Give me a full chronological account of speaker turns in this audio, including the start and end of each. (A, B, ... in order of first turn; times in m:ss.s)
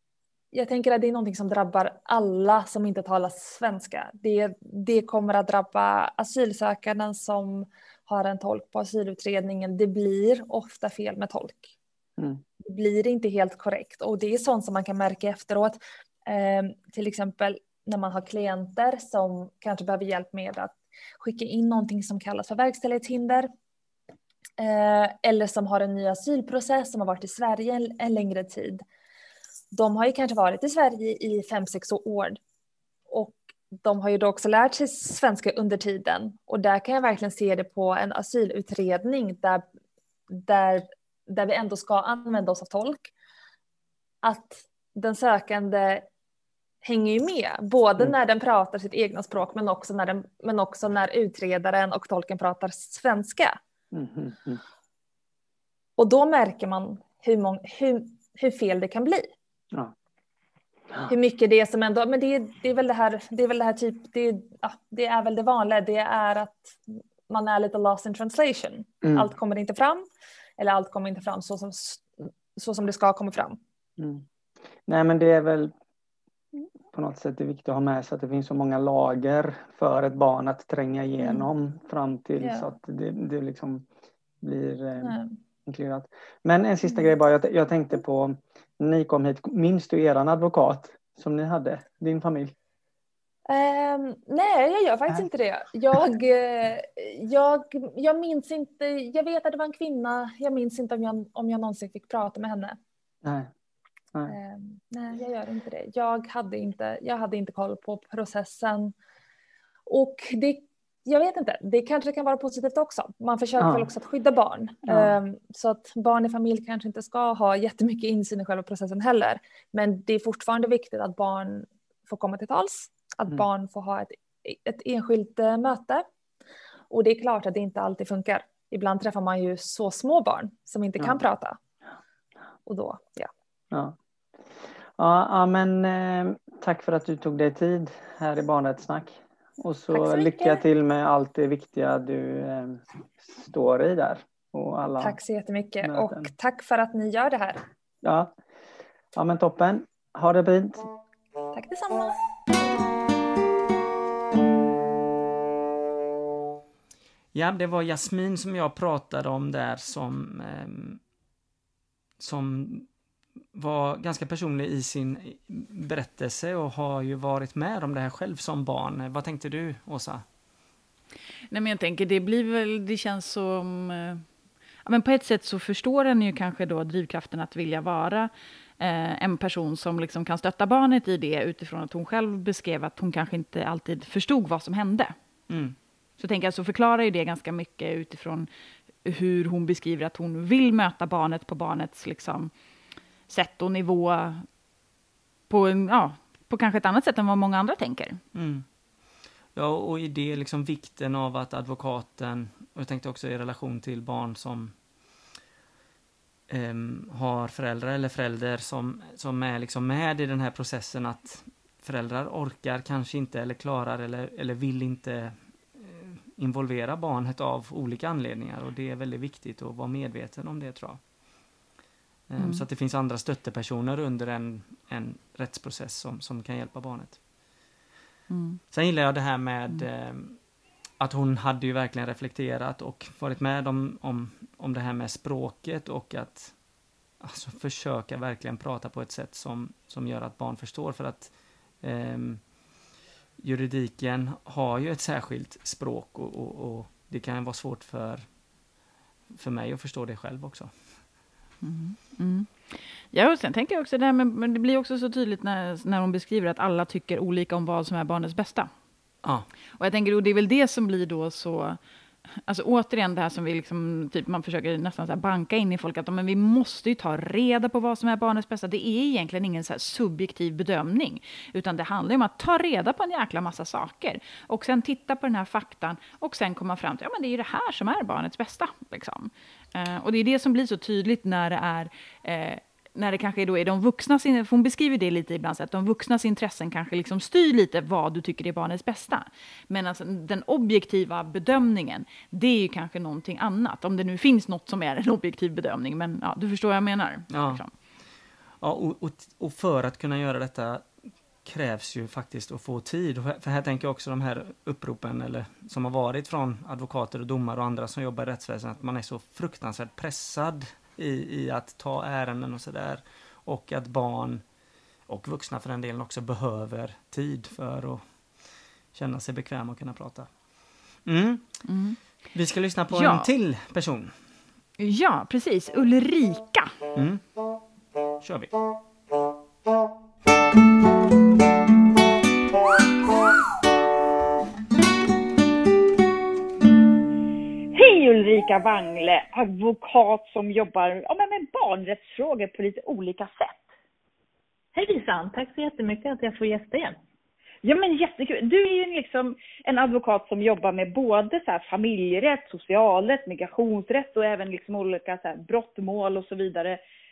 0:00.5-0:11.7 A
0:12.6-0:23.5 A
0:24.6-0:28.8 A
0:29.7-0:32.4 A
0:33.1-0:39.6 A
0:40.3-0:43.1 A
0:44.2-0:46.1 A
0:46.8-0:53.6 A
0:53.9-0:54.6 B
0:56.0-0:59.3 A
1:01.1-1:10.1 A
1:09.0-1:09.3 B
1:10.6-1:13.6 A
1:14.0-1:14.2 B
1:14.9-1:15.7 B
1:16.9-1:23.9 B
1:21.2-1:21.5 A
1:22.4-1:22.7 A
1:24.4-1:32.5 B
1:25.0-1:25.4 A
1:33.5-1:42.8 A
1:43.2-1:43.5 B
1:44.3-1:48.9 A
1:49.9-2:06.0 A
1:53.6-1:53.9 B
1:54.9-1:55.2 B
2:06.9-2:11.6 A
2:12.7-2:13.3 A
2:13.7-2:14.0 B
2:15.0-2:25.2 B
2:19.9-2:20.6 A
2:25.0-2:27.6 A
2:25.8-2:26.3 B
2:28.0-2:28.4 B
2:29.1-2:30.9 B
2:31.5-2:32.2 A
2:37.3-2:41.0 C
2:42.2-2:42.9 C
2:43.5-2:50.3 C
2:51.5-2:54.2 D
2:54.8-3:05.1 D
3:05.5-3:05.8 C
3:06.2-3:08.5 D
3:09.0-3:12.5 D
3:13.3-3:14.5 D
3:15.5-3:18.2 D
3:18.3-3:18.7 C
3:19.5-3:24.8 C
3:26.5-3:41.0 C
3:42.3-3:47.2 C
3:42.4-3:42.6 D
3:48.3-3:48.6 D
3:48.7-3:56.7 C
3:57.2-4:02.6 C
4:03.4-4:08.4 C
4:09.3-4:11.1 C
4:11.6-4:18.7 D
4:19.8-4:21.8 D
4:22.4-4:57.7 D
4:57.3-4:57.6 C
4:58.6-5:14.4 C
5:15.1-5:20.3 C
5:21.0-5:21.7 C
5:21.7-5:22.0 D
5:22.3-5:24.2 C
5:22.9-5:23.3 D
5:24.8-5:26.7 D
5:27.0-5:27.2 C
5:28.2-5:28.5 C
5:37.7-5:43.7 E
5:44.7-5:47.0 F
5:47.6-5:56.8 E